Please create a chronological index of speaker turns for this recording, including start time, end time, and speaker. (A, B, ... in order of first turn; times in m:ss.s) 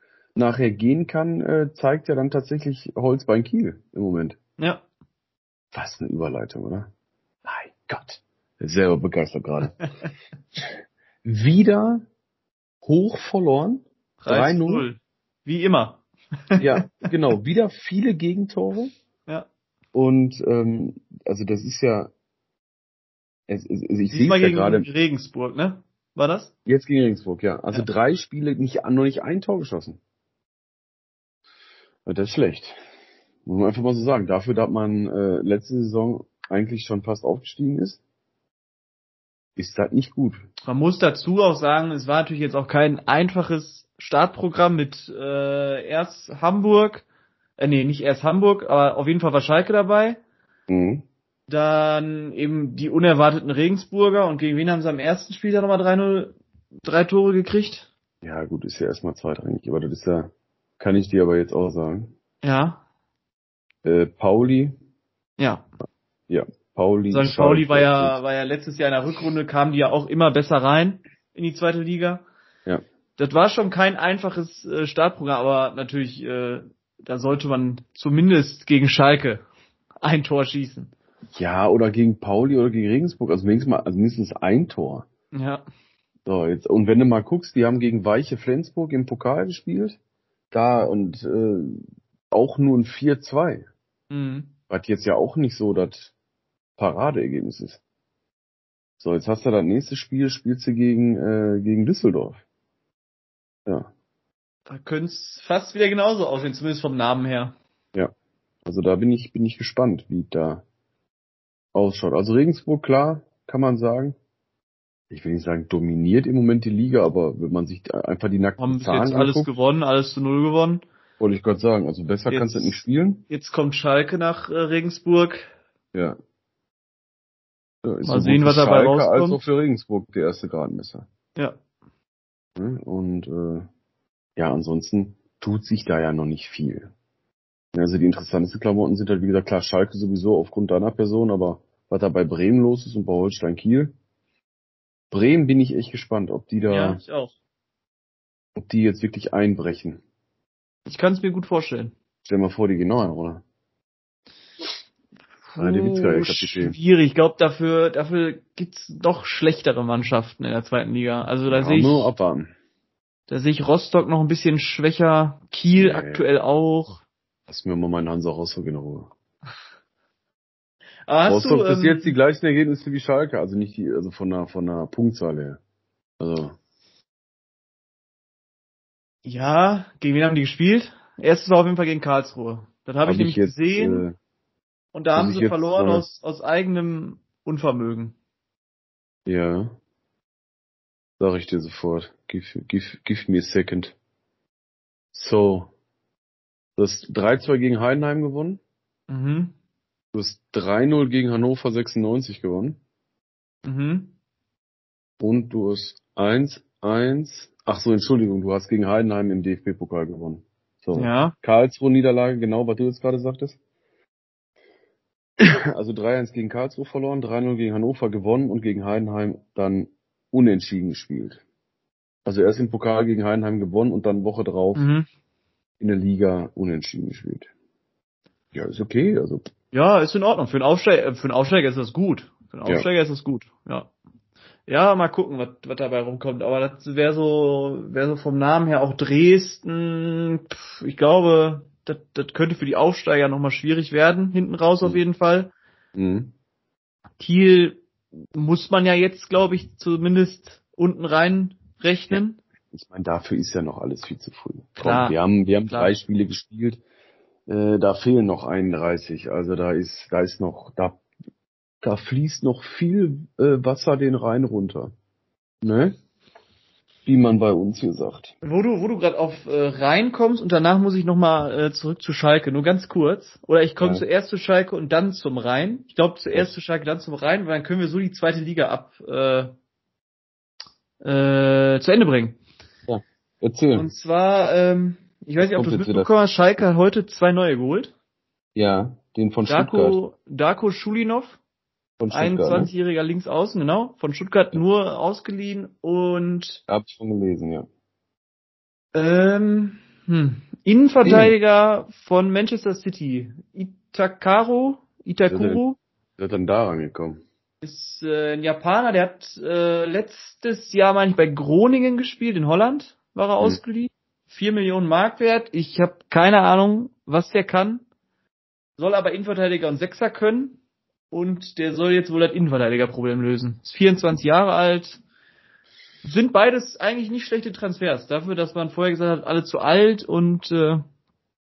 0:00.4-0:04.4 A
0:04.6-0:04.8 B
0:05.7-0:06.9 A
0:07.4-0:09.8 A
0:11.2-0:12.0 A
0:12.8-0:14.9 A
0:14.2-0:17.1 B
0:16.6-0:18.9 A
0:19.9-0:22.1 A
0:23.5-0:24.9 A
0:24.1-0:26.5 B
0:26.6-0:30.0 A
0:32.1-0:32.8 A
0:33.4-0:38.0 A
0:39.6-0:40.4 A
0:40.6-0:47.0 B
0:47.6-0:50.2 B
0:50.7-0:51.0 A
0:51.5-0:57.9 B
0:58.2-1:02.1 A
1:02.4-1:02.8 B
1:03.8-1:04.8 A
1:05.4-1:05.6 B
1:06.3-1:08.2 A
1:07.1-1:12.2 B
1:13.2-1:19.4 B
1:20.0-1:20.9 B
1:21.4-1:25.1 A
1:25.3-1:25.6 B
1:26.2-1:30.0 A
1:30.5-1:33.7 A
1:34.1-1:34.5 B
1:34.7-1:36.1 A
1:36.8-1:37.8 A
1:39.0-1:42.4 A
1:44.7-1:47.6 B
1:48.6-1:50.6 A
1:51.7-1:54.2 A
1:55.1-1:59.5 A
1:58.6-2:00.8 B
2:01.2-2:03.2 A
2:02.3-2:05.5 B
2:07.8-2:11.1 A
2:08.0-2:09.4 B
2:12.6-2:13.7 A
2:14.4-2:16.9 A
2:17.7-2:23.9 A
2:25.1-2:27.0 A
2:26.7-2:27.3 B
2:28.6-2:30.0 A
2:30.9-2:31.9 B
2:32.2-2:33.4 A
2:35.6-2:42.1 B
2:35.6-2:36.8 A
2:41.5-2:42.5 A
2:43.3-2:47.0 B
2:45.8-2:46.2 A
2:47.5-2:49.1 A
2:51.1-2:52.1 B
2:51.3-2:55.6 A
2:56.2-2:56.6 A
2:59.2-3:04.1 B
3:03.0-3:04.1 A
3:04.9-3:08.1 B
3:05.1-3:06.1 A
3:09.2-3:09.7 A
3:11.2-3:14.0 A
3:15.1-3:15.7 A
3:16.8-3:18.6 A
3:19.1-3:19.6 B
3:20.1-3:22.8 A
3:23.6-3:24.1 B
3:25.2-3:33.6 A
3:31.0-3:31.4 B
3:35.4-3:41.4 A
3:42.2-3:44.9 A
3:44.8-3:45.1 B
3:45.8-3:47.5 A
3:48.5-3:49.4 A
3:49.7-3:53.9 B
3:54.7-4:05.5 B
4:06.0-4:06.3 A
4:07.2-4:07.8 B
4:08.4-4:12.4 B
4:12.7-4:16.8 A
4:14.8-4:15.1 B
4:15.7-4:15.9 B
4:17.5-4:21.0 A
4:21.8-4:24.9 A
4:25.6-4:26.0 A
4:27.0-4:28.3 A
4:28.4-4:39.5 B
4:33.8-4:34.0 A
4:41.0-4:42.4 B
4:42.9-4:43.9 A
4:43.8-4:47.9 B
4:45.4-4:46.1 A
4:48.5-4:50.0 A
4:49.5-4:51.4 B
4:52.0-4:52.7 A
4:52.1-4:56.6 B
4:56.7-4:57.7 A
4:58.9-5:05.8 B
5:01.0-5:01.4 A
5:05.2-5:05.6 A
5:06.2-5:07.2 A
5:07.6-5:17.8 B
5:18.8-5:20.6 B
5:21.1-5:25.0 B
5:26.0-5:30.8 B